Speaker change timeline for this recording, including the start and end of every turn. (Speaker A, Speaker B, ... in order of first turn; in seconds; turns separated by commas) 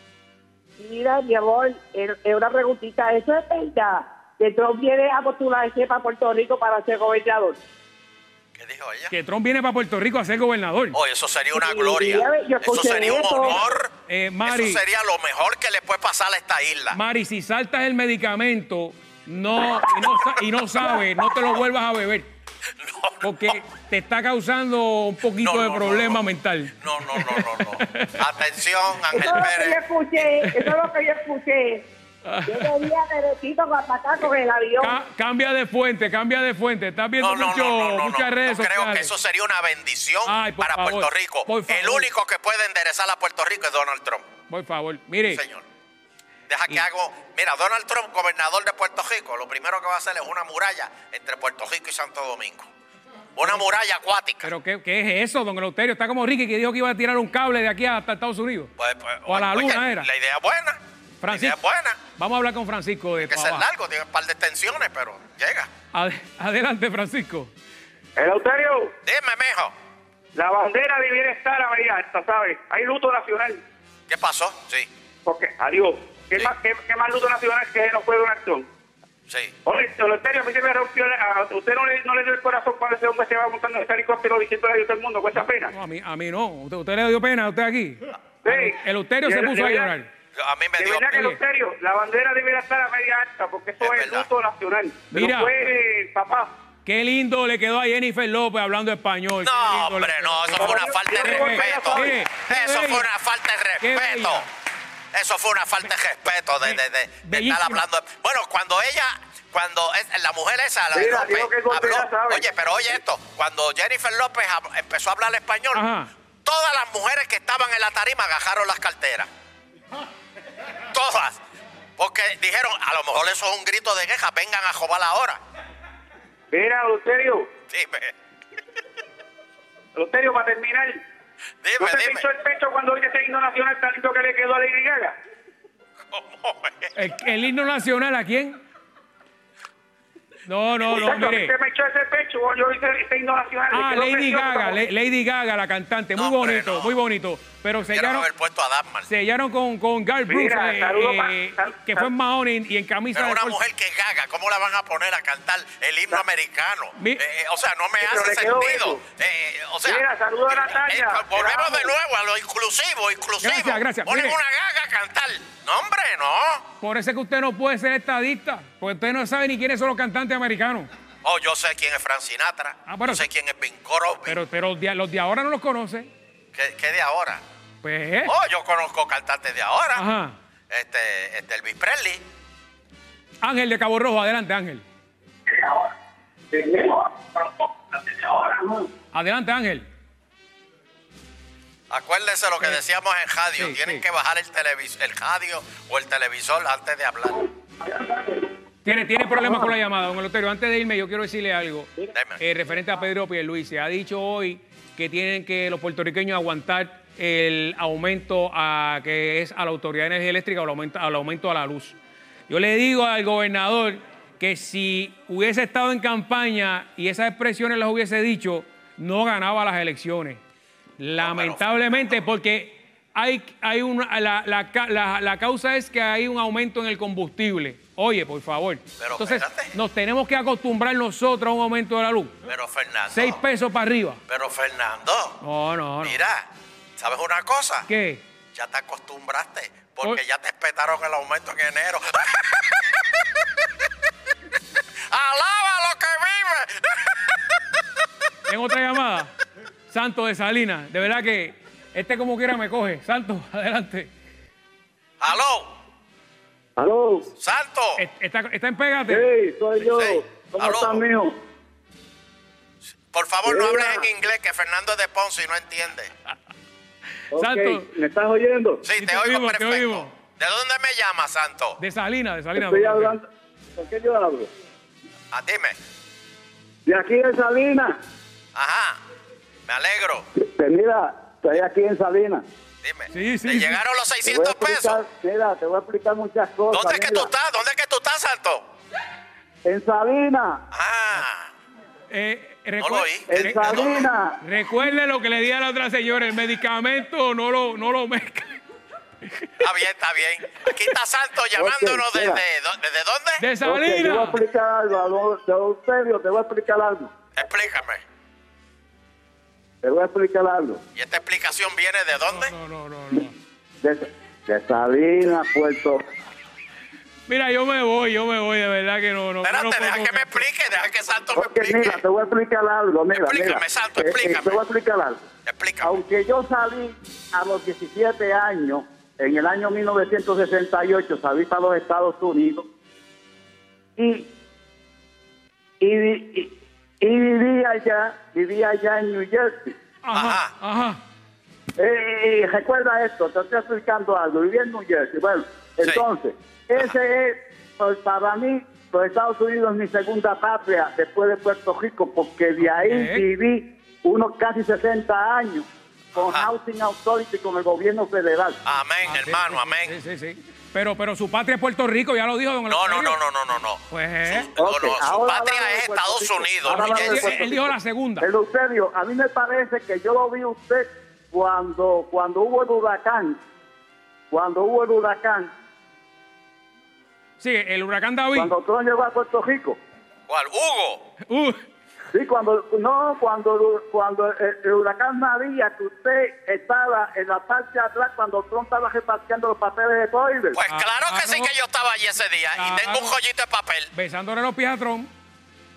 Speaker A: 0.8-7.6, Speaker B: 8.5-9.1, Speaker C: 9.1-11.0, Speaker B: 10.9-13.9, Speaker A: 11.5-13.7, Speaker C: 14.1-14.8, Speaker B: 14.4-17.0, Speaker C: 16.9-22.3, Speaker B: 22.8-23.3, Speaker C: 23.2-28.1, Speaker B: 25.4-26.2, Speaker B: 26.8-30.5, Speaker A: 29.1-31.9, Speaker C: 32.2-32.9, Speaker A: 32.4-34.9, Speaker C: 34.8-39.1, Speaker B: 37.2-44.2, Speaker C: 40.2-42.1, Speaker C: 44.5-45.4, Speaker B: 45.2-45.6, Speaker B: 46.5-52.7, Speaker B: 53.4-54.5, Speaker C: 54.4-58.7, Speaker B: 58.8-62.0, Speaker C: 59.2-60.1, Speaker C: 61.2-61.6, Speaker C: 62.2-63.6, Speaker B: 63.2-65.7, Speaker C: 65.9-67.5, Speaker D: 68.2-68.9, Speaker B: 69.0-69.7, Speaker D: 70.3-73.6, Speaker B: 74.1-74.9, Speaker D: 75.2-78.7, Speaker B: 79.3-79.5, Speaker D: 79.7-85.7, Speaker C: 85.4-90.1, Speaker D: 88.4-89.9, Speaker B: 90.3-91.2, Speaker D: 90.8-96.5, Speaker C: 91.1-91.4, Speaker B: 93.8-94.3, Speaker C: 95.1-95.5, Speaker C: 96.8-103.1, Speaker B: 99.4-104.5, Speaker D: 100.5-102.2, Speaker C: 103.8-104.4, Speaker B: 105.1-115.8, Speaker C: 106.6-107.8, Speaker D: 110.9-112.5, Speaker C: 115.7-116.1, Speaker B: 116.4-119.3, Speaker B: 120.9-121.4, Speaker B: 122.0-125.4, Speaker D: 126.5-127.5, Speaker B: 127.7-128.1, Speaker D: 129.9-131.0, Speaker B: 131.6-132.3, Speaker D: 131.8-135.2, Speaker B: 136.1-137.0, Speaker C: 136.9-138.6, Speaker C: 140.4-141.5, Speaker D: 140.9-144.8, Speaker C: 143.7-148.3, Speaker B: 146.1-146.9, Speaker B: 147.8-149.1, Speaker C: 149.1-153.6, Speaker D: 150.3-152.1, Speaker B: 153.1-166.6, Speaker C: 156.9-157.2, Speaker D: 158.0-159.0, Speaker D: 159.8-161.9, Speaker C: 163.4-164.4, Speaker C: 166.8-170.9, Speaker B: 171.2-174.4, Speaker C: 172.8-173.2, Speaker C: 174.2-176.1, Speaker B: 176.5-177.4, Speaker C: 177.8-178.3, Speaker B: 178.2-180.0, Speaker C: 179.9-180.3, Speaker B: 180.7-182.2, Speaker C: 183.4-184.8, Speaker D: 185.5-185.8, Speaker D: 186.5-188.8, Speaker C: 189.1-189.9, Speaker B: 191.9-197.5, Speaker C: 193.6-194.0, Speaker C: 198.8-211.9, Speaker B: 202.1-202.4, Speaker C: 212.5-220.4, Speaker C: 221.0-232.3, Speaker B: 221.2-222.1, Speaker B: 229.0-229.7, Speaker B: 232.4-233.4, Speaker C: 233.1-234.2, Speaker B: 234.3-235.4, Speaker C: 235.4-236.2, Speaker B: 236.0-237.9, Speaker C: 237.9-238.2, Speaker B: 238.5-243.2, Speaker B: 245.1-247.6, Speaker C: 248.5-249.3, Speaker C: 249.9-254.1, Speaker B: 255.2-255.8, Speaker E: 256.8-257.3, Speaker B: 257.4-258.0, Speaker C: 258.0-259.2, Speaker E: 259.1-261.3, Speaker B: 259.8-261.0, Speaker B: 263.1-266.1, Speaker E: 263.4-264.1, Speaker E: 267.3-268.8, Speaker C: 267.3-267.9, Speaker B: 268.8-271.8, Speaker C: 269.0-270.1, Speaker C: 271.8-273.1, Speaker E: 272.5-273.2, Speaker E: 273.8-274.5, Speaker B: 275.3-275.8, Speaker E: 276.9-278.0, Speaker B: 278.5-279.0, Speaker B: 279.7-280.3, Speaker E: 280.3-282.4, Speaker B: 282.8-285.0, Speaker C: 283.1-283.8, Speaker E: 284.2-287.3, Speaker B: 286.7-288.7, Speaker E: 289.6-290.6, Speaker B: 290.7-291.5, Speaker C: 292.1-298.6, Speaker B: 292.8-294.1, Speaker E: 293.3-294.4, Speaker B: 299.6-303.4, Speaker E: 301.5-302.4, Speaker C: 303.4-304.4, Speaker E: 303.6-307.1, Speaker B: 307.3-308.0, Speaker E: 309.8-310.8, Speaker B: 310.9-312.5, Speaker C: 312.3-313.3, Speaker E: 313.8-316.0, Speaker C: 317.3-320.4, Speaker B: 319.4-322.0, Speaker E: 321.3-325.2, Speaker B: 323.1-324.6, Speaker B: 325.4-326.0, Speaker E: 325.8-332.6, Speaker E: 334.0-334.3, Speaker E: 335.8-339.7, Speaker C: 340.0-341.0, Speaker B: 340.1-340.5, Speaker E: 341.8-358.6, Speaker C: 352.6-353.3, Speaker B: 356.1-356.5, Speaker B: 358.6-359.9, Speaker C: 359.0-363.2, Speaker B: 362.7-367.5, Speaker C: 363.9-364.5, Speaker E: 364.6-373.4, Speaker C: 366.6-368.3, Speaker E: 374.3-375.5, Speaker C: 377.4-378.5, Speaker E: 378.3-379.8, Speaker B: 380.3-381.1, Speaker C: 381.3-381.6, Speaker E: 382.1-390.6, Speaker B: 390.5-393.9, Speaker C: 390.7-391.5, Speaker C: 392.5-393.1, Speaker C: 393.9-395.1